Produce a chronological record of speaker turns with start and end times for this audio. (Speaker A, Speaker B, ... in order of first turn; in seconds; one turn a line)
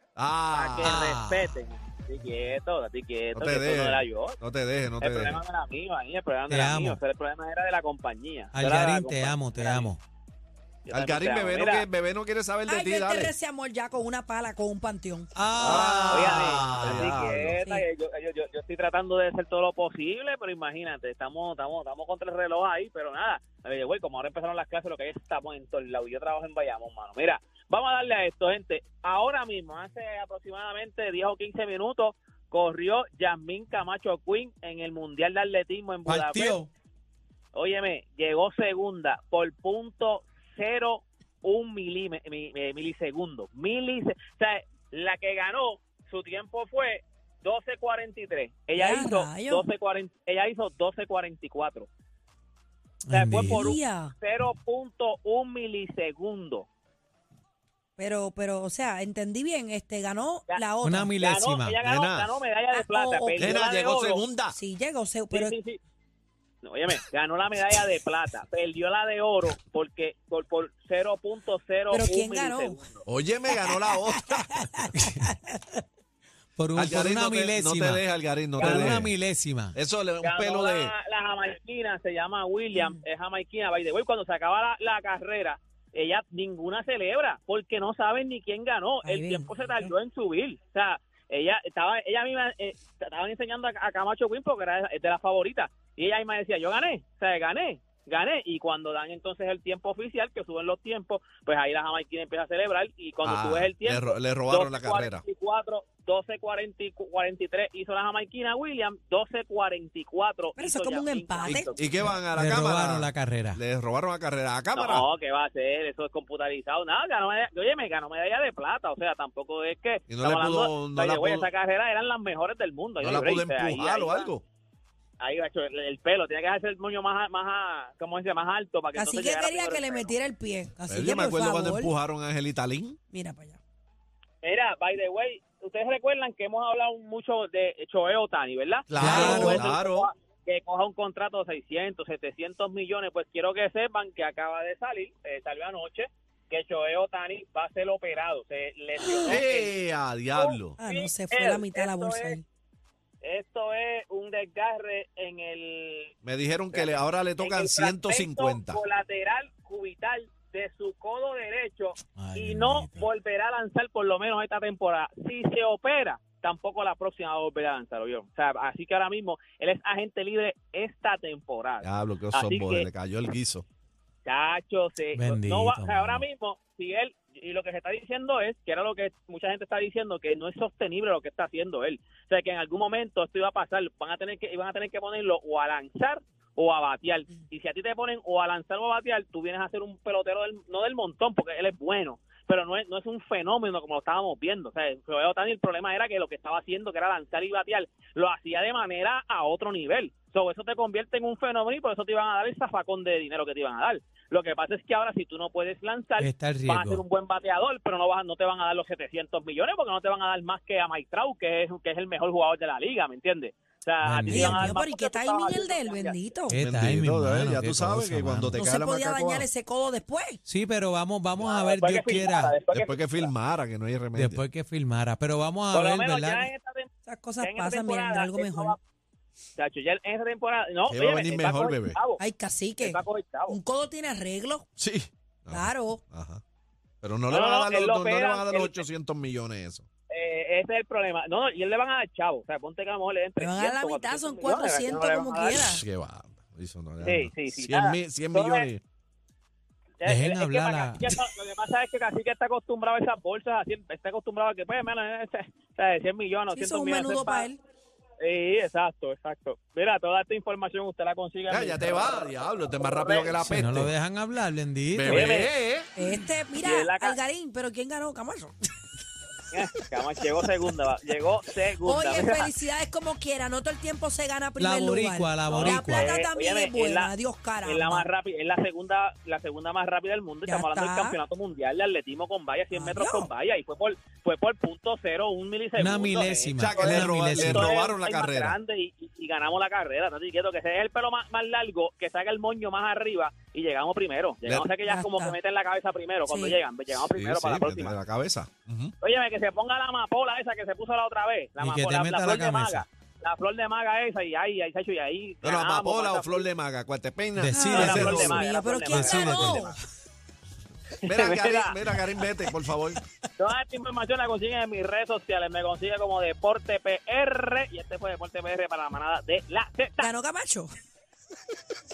Speaker A: 0.2-1.0
Speaker B: 0.5-4.4
Speaker C: 0.8-1.5
Speaker A: 3.4-5.4
Speaker B: 5.0-9.9
Speaker C: 6.5-7.0
Speaker C: 8.5-10.0
Speaker B: 10.9-11.9
Speaker A: 10.9-13.3
Speaker D: 12.7-15.8
Speaker C: 15.3-17.1
Speaker A: 15.6-17.6
Speaker B: 15.7-36.6
Speaker C: 36.1-36.7
Speaker B: 37.5-51.9
Speaker D: 48.8-49.6
Speaker C: 53.0-53.8
Speaker B: 53.1-56.7
Speaker D: 53.5-54.1
Speaker D: 58.0-61.4
Speaker C: 60.8-61.8
Speaker B: 61.2-64.2
Speaker A: 61.8-62.3
Speaker D: 62.7-63.5
Speaker A: 63.4-64.6
Speaker D: 64.5-65.6
Speaker B: 65.3-65.8
Speaker B: 66.6-73.0
Speaker D: 71.9-72.8
Speaker A: 73.1-74.8
Speaker D: 74.3-74.7
Speaker C: 76.6-78.0
Speaker A: 76.8-79.1
Speaker B: 78.6-78.9
Speaker C: 78.6-79.8
Speaker A: 79.8-80.9
Speaker B: 80.2-111.8
Speaker D: 82.8-83.0
Speaker D: 89.0-89.9
Speaker A: 103.2-105.2
Speaker D: 110.6-111.8
Speaker A: 111.5-115.1
Speaker C: 112.1-113.6
Speaker B: 114.8-124.3
Speaker A: 120.1-121.5
Speaker A: 123.0-124.4
Speaker B: 125.2-130.1
Speaker D: 128.9-131.9
Speaker A: 130.9-133.0
Speaker D: 133.1-133.6
Speaker B: 134.4-149.7
Speaker A: 138.9-140.1
Speaker C: 139.0-139.6
Speaker D: 139.1-139.6
Speaker A: 149.3-150.8
Speaker B: 150.3-152.4
Speaker D: 150.8-152.4
Speaker B: 153.2-156.1
Speaker A: 156.2-158.8
Speaker B: 156.7-172.9
Speaker C: 162.2-163.1
Speaker A: 171.8-173.7
Speaker B: 174.2-216.3
Speaker C: 175.1-176.2
Speaker C: 206.2-207.0
Speaker C: 214.0-214.8
Speaker D: 214.3-216.6
Speaker C: 216.5-218.7
Speaker A: 216.6-219.5
Speaker D: 218.6-220.4
Speaker C: 220.4-222.6
Speaker B: 221.4-223.3
Speaker A: 222.7-224.4
Speaker C: 224.1-226.5
Speaker B: 225.7-226.9
Speaker D: 227.1-228.8
Speaker B: 227.4-228.8
Speaker B: 229.6-232.2
Speaker A: 230.9-232.0
Speaker D: 232.2-234.7
Speaker B: 232.8-233.6
Speaker A: 234.8-236.4
Speaker D: 235.5-236.0
Speaker A: 237.0-239.9
Speaker B: 237.3-238.9
Speaker B: 240.1-245.6
Speaker D: 243.4-245.8
Speaker A: 245.6-248.8
Speaker B: 247.0-248.7
Speaker B: 250.0-257.5
Speaker C: 250.0-251.2
Speaker D: 256.5-257.6
Speaker B: 258.2-263.4
Speaker A: 261.5-263.9
Speaker C: 263.4-265.3
Speaker A: 264.9-265.9
Speaker B: 265.1-267.2
Speaker D: 266.0-268.6
Speaker B: 269.5-272.5
Speaker D: 271.8-278.1
Speaker C: 274.6-276.1
Speaker B: 275.5-277.1
Speaker B: 277.6-298.0
Speaker D: 280.5-281.2
Speaker D: 282.7-283.3
Speaker C: 285.8-287.7
Speaker A: 286.6-288.6
Speaker D: 294.9-295.4
Speaker D: 296.3-296.6
Speaker A: 296.9-298.9
Speaker B: 299.0-306.5
Speaker C: 301.6-302.9
Speaker A: 305.4-308.4
Speaker C: 307.4-308.3
Speaker D: 307.5-309.8
Speaker B: 307.7-309.8
Speaker C: 308.9-309.6
Speaker B: 311.0-311.8
Speaker A: 311.0-313.0
Speaker B: 313.4-320.1
Speaker D: 320.0-320.7